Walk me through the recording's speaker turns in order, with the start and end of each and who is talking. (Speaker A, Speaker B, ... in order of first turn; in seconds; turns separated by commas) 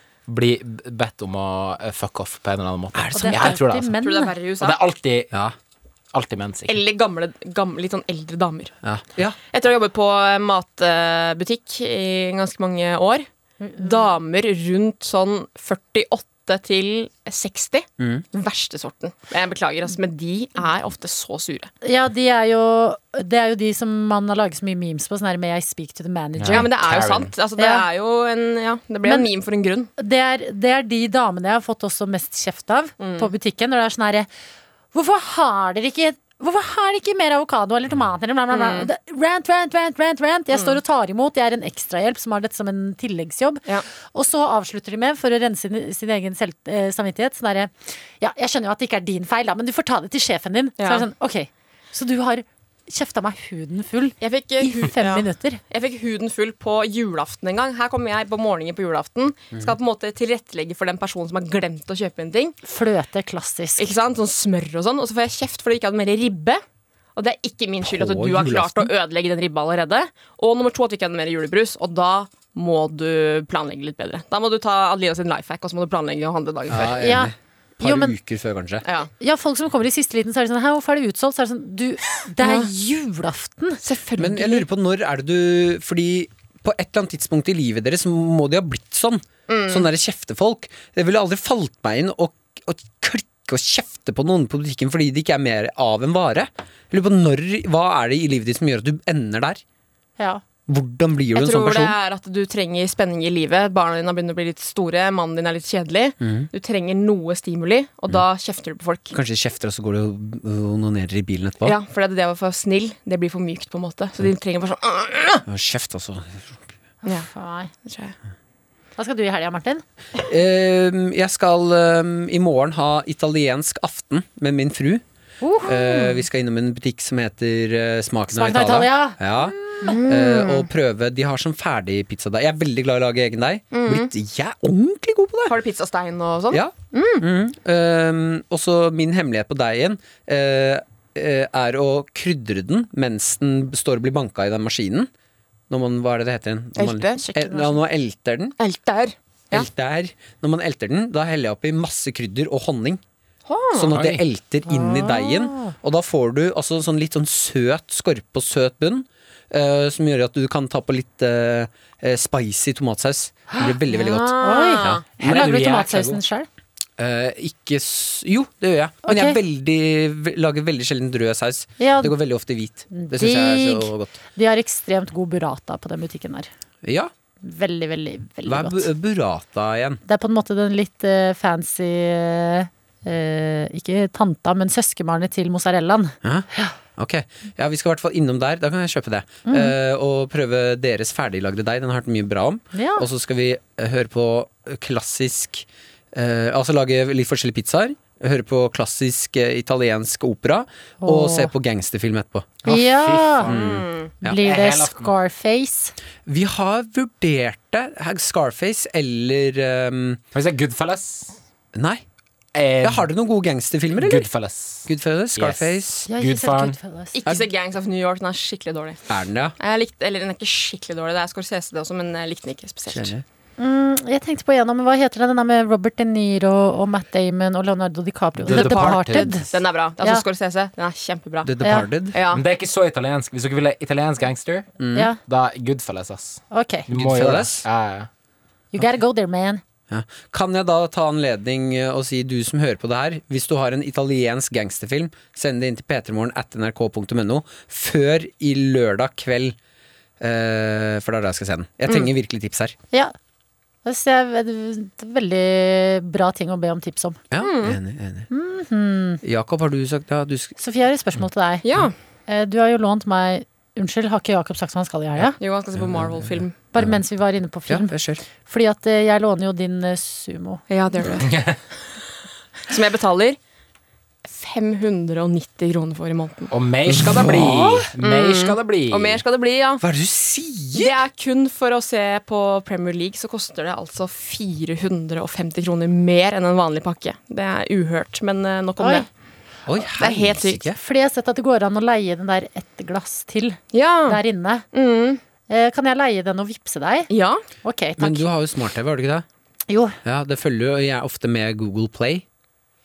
Speaker A: 0.3-4.0, Speaker B: 2.9-3.5, Speaker C: 3.1-4.3, Speaker D: 3.3-4.8, Speaker A: 4.6-5.3, Speaker A: 6.1-6.8, Speaker D: 6.7-8.7, Speaker B: 8.8-9.4, Speaker D: 9.5-13.3, Speaker C: 13.6-14.1, Speaker D: 13.8-21.7, Speaker B: 18.0-18.2, Speaker C: 21.8-26.6, Speaker A: 26.4-27.3, Speaker D: 26.5-29.9, Speaker C: 27.6-27.9, Speaker C: 30.0-34.3, Speaker D: 33.0-33.3, Speaker C: 34.9-55.6, Speaker D: 38.5-38.9, Speaker D: 40.5-40.8, Speaker D: 50.8-51.1, Speaker D: 54.2-62.6, Speaker C: 62.6-63.9, Speaker D: 63.8-66.6, Speaker D: 67.2-77.0, Speaker B: 67.8-68.9, Speaker B: 76.7-78.9, Speaker C: 77.0-78.2, Speaker D: 78.8-79.1, Speaker C: 79.2-83.8, Speaker D: 82.4-82.7, Speaker D: 83.8-84.7, Speaker B: 84.2-99.6, Speaker D: 89.5-89.9, Speaker C: 100.2-100.4, Speaker B: 100.7-102.0, Speaker D: 101.3-109.2, Speaker B: 106.2-106.5, Speaker B: 109.1-111.8, Speaker D: 111.7-115.4, Speaker B: 115.5-116.6, Speaker C: 117.0-117.7, Speaker D: 117.8-118.1, Speaker C: 119.0-119.8, Speaker B: 120.2-125.0, Speaker C: 125.4-125.7, Speaker B: 125.6-135.6, Speaker C: 128.3-130.0, Speaker D: 129.8-130.7, Speaker D: 133.7-134.1, Speaker D: 135.5-137.2, Speaker B: 136.5-145.1, Speaker B: 145.7-148.6, Speaker D: 146.8-147.3, Speaker D: 148.6-149.7, Speaker B: 149.5-153.0, Speaker D: 153.5-153.9, Speaker B: 153.7-165.1, Speaker A: 153.9-154.2, Speaker C: 154.8-155.7, Speaker D: 163.9-165.1, Speaker C: 164.4-166.5, Speaker A: 165.2-166.2, Speaker B: 167.0-174.2, Speaker C: 169.1-169.4, Speaker C: 171.8-172.1, Speaker C: 172.9-176.5, Speaker B: 176.8-177.1, Speaker C: 177.4-178.9, Speaker B: 178.4-180.0, Speaker C: 180.1-186.7, Speaker B: 186.2-202.5, Speaker C: 189.5-189.7, Speaker C: 192.7-193.1, Speaker C: 201.0-201.5, Speaker A: 202.6-203.6, Speaker C: 202.7-203.5, Speaker B: 203.4-204.4, Speaker D: 203.5-204.1, Speaker A: 204.2-205.1, Speaker C: 204.3-205.9, Speaker B: 206.3-210.2, Speaker A: 210.3-211.4, Speaker B: 211.8-212.0, Speaker A: 212.6-213.1, Speaker B: 212.8-214.3, Speaker A: 213.9-216.8, Speaker B: 214.9-216.1, Speaker C: 216.1-217.2, Speaker D: 217.1-219.0, Speaker B: 219.1-219.6, Speaker D: 219.6-223.2, Speaker B: 222.9-223.2, Speaker C: 223.6-230.2, Speaker A: 228.4-229.6, Speaker D: 228.4-231.5, Speaker B: 231.4-232.2, Speaker C: 231.6-231.9, Speaker D: 232.1-232.4, Speaker A: 232.3-234.7, Speaker B: 234.8-235.1, Speaker A: 235.2-238.1, Speaker C: 236.5-236.9, Speaker B: 236.9-237.7, Speaker C: 238.7-239.6, Speaker B: 239.9-249.6, Speaker B: 250.2-252.8, Speaker C: 253.8-257.3, Speaker B: 257.3-258.3, Speaker D: 257.4-257.8, Speaker C: 258.3-259.2, Speaker B: 259.2-260.6, Speaker C: 260.6-261.7, Speaker D: 261.6-261.9, Speaker C: 262.3-265.3, Speaker D: 265.3-266.6, Speaker C: 266.7-270.6, Speaker B: 266.8-267.0, Speaker B: 267.7-268.2, Speaker D: 270.7-271.3, Speaker A: 271.1-271.6, Speaker D: 272.7-273.4, Speaker D: 274.2-276.5, Speaker A: 276.5-279.2, Speaker B: 276.9-277.9, Speaker D: 277.4-279.8, Speaker B: 279.8-281.0, Speaker D: 280.7-289.1, Speaker C: 288.8-289.1, Speaker B: 289.7-290.8, Speaker D: 290.0-290.7, Speaker C: 290.7-294.7, Speaker D: 293.7-295.2, Speaker C: 295.5-297.1, Speaker D: 297.1-297.4, Speaker C: 297.6-298.3, Speaker B: 298.0-299.2, Speaker C: 299.7-300.0, Speaker B: 300.0-302.2